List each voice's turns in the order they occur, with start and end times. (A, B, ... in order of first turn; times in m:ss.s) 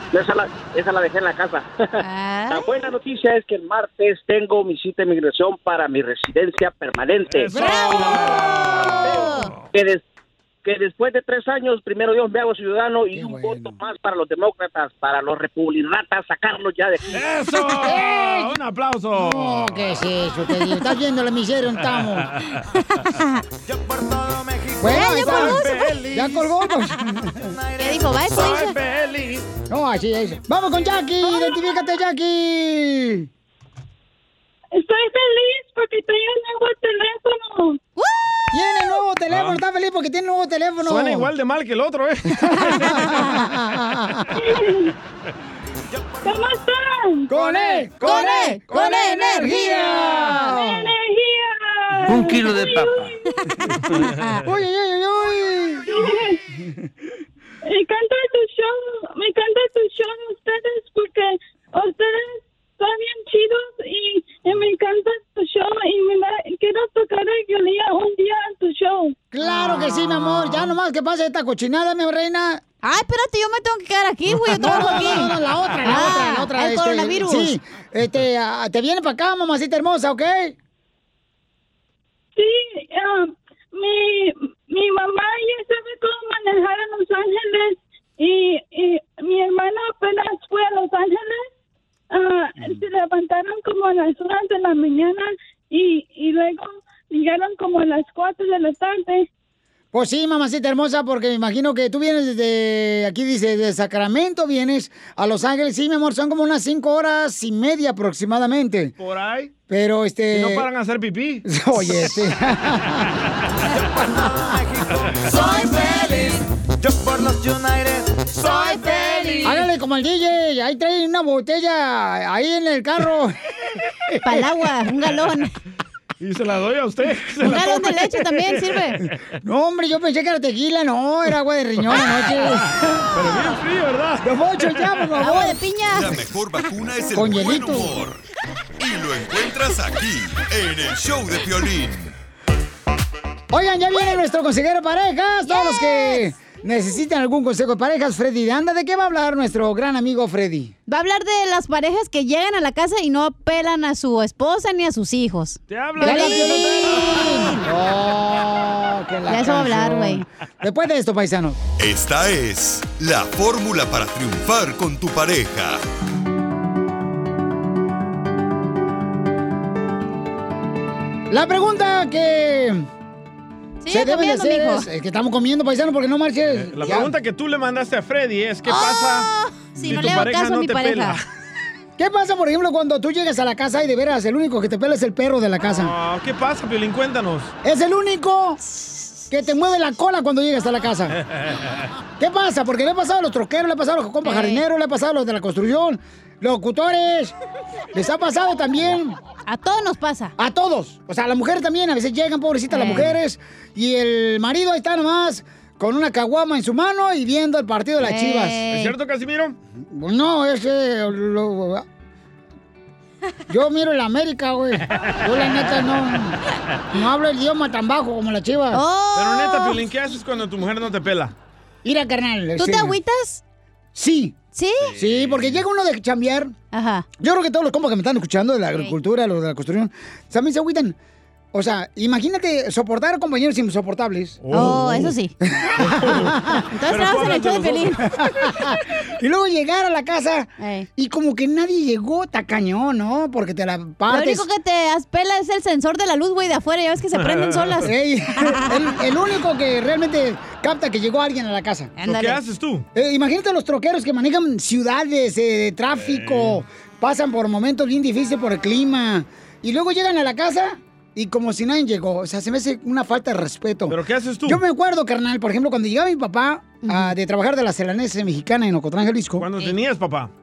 0:00.1-0:01.7 A
0:02.0-0:02.7 B
0:02.5-0:07.5 A
0:07.3-0:09.6 C
0:07.5-0:09.3 D
0:07.6-0:09.5 B
0:09.7-0:10.0 A
0:10.6-0:17.1 A
0:13.1-0:13.7 D
0:17.1-0:19.9 C
0:17.7-0:18.5 D
0:19.2-0:22.3 D
0:23.0-0:23.4 B
0:23.7-0:25.9 E
0:24.8-0:27.6 D
0:24.9-0:26.0 B
0:25.2-0:26.4 C
0:27.3-0:28.6 E
0:27.8-0:28.8 B
0:28.3-0:29.5 C
0:29.7-0:33.3 D
0:34.7-0:37.8 F
0:38.5-0:41.3 D
0:39.3-0:39.6 C
0:40.8-0:42.7 C
0:42.5-0:44.3 D
0:42.6-0:43.2 B
0:44.4-0:44.9 F
0:45.9-0:46.4 E
0:46.2-0:47.3 F
0:47.3-0:50.8 D
0:48.0-0:50.5 B
0:50.5-0:53.4 F
0:54.1-0:54.4 B
0:54.4-0:56.0 D
0:55.9-0:56.4 F
0:57.6-1:09.2 F
1:09.3-1:12.6 D
1:09.4-1:10.4 B
1:12.8-1:15.3 B
1:14.4-1:20.6 D
1:15.8-1:17.5 B
1:22.4-1:31.5 F
1:32.1-1:39.3 F
1:39.9-1:48.9 D
1:49.0-1:49.5 C
1:49.7-1:50.7 D
1:50.3-1:52.2 C
1:51.4-1:53.1 D
1:54.0-1:54.4 D
1:54.1-1:59.4 E
1:55.4-1:56.2 B
1:58.4-1:59.6 B
1:59.4-2:03.4 D
2:04.1-2:04.5 D
2:04.2-2:05.5 B
2:06.2-2:08.8 C
2:07.4-2:09.0 B
2:09.4-2:12.7 D
2:12.0-2:12.5 C
2:13.1-2:14.2 C
2:14.2-2:15.6 D
2:15.2-2:16.2 B
2:15.9-2:18.2 G
2:17.1-2:18.0 D
2:18.8-2:22.1 G
2:23.5-2:30.7 D
2:25.5-2:26.3 B
2:30.9-2:37.6 B
2:35.7-2:37.3 C
2:36.0-2:41.6 D
2:39.3-2:40.2 B
2:41.8-2:45.8 G
2:51.3-2:52.9 D
2:53.8-2:54.9 B
2:53.9-2:57.1 D
2:56.5-3:01.2 C
2:58.7-3:01.2 B
3:02.0-3:05.9 D
3:05.6-3:07.5 C
3:07.6-3:08.6 D
3:09.3-3:11.2 D
3:12.2-3:17.3 D
3:14.2-3:14.6 B
3:17.9-3:19.2 D
3:19.5-3:20.4 B
3:20.4-3:28.6 D
3:22.7-3:23.1 B
3:28.0-3:29.0 B
3:28.7-3:29.6 C
3:29.8-3:31.8 D
3:33.5-3:36.4 D
3:36.9-3:38.8 D
3:38.7-3:39.8 B
3:39.2-3:41.3 C
3:41.8-3:43.0 D
3:42.6-3:43.4 B
3:44.0-3:44.4 D
3:44.5-3:44.9 B
3:44.8-3:45.6 C
3:45.0-3:46.5 D
3:46.7-3:47.1 B
3:47.2-3:51.0 D
3:51.5-3:56.7 D
3:54.4-3:55.1 C
3:54.5-3:55.3 B
3:55.8-3:58.0 C
3:56.7-3:58.1 B
3:58.1-4:04.5 D
4:00.6-4:00.9 B
4:04.1-4:07.9 B
4:07.2-4:07.8 C
4:07.8-4:11.9 D
4:12.0-4:12.4 B
4:12.0-4:12.9 C
4:12.9-4:29.5 D
4:15.9-4:16.6 C
4:23.9-4:24.6 C
4:29.4-4:30.3 C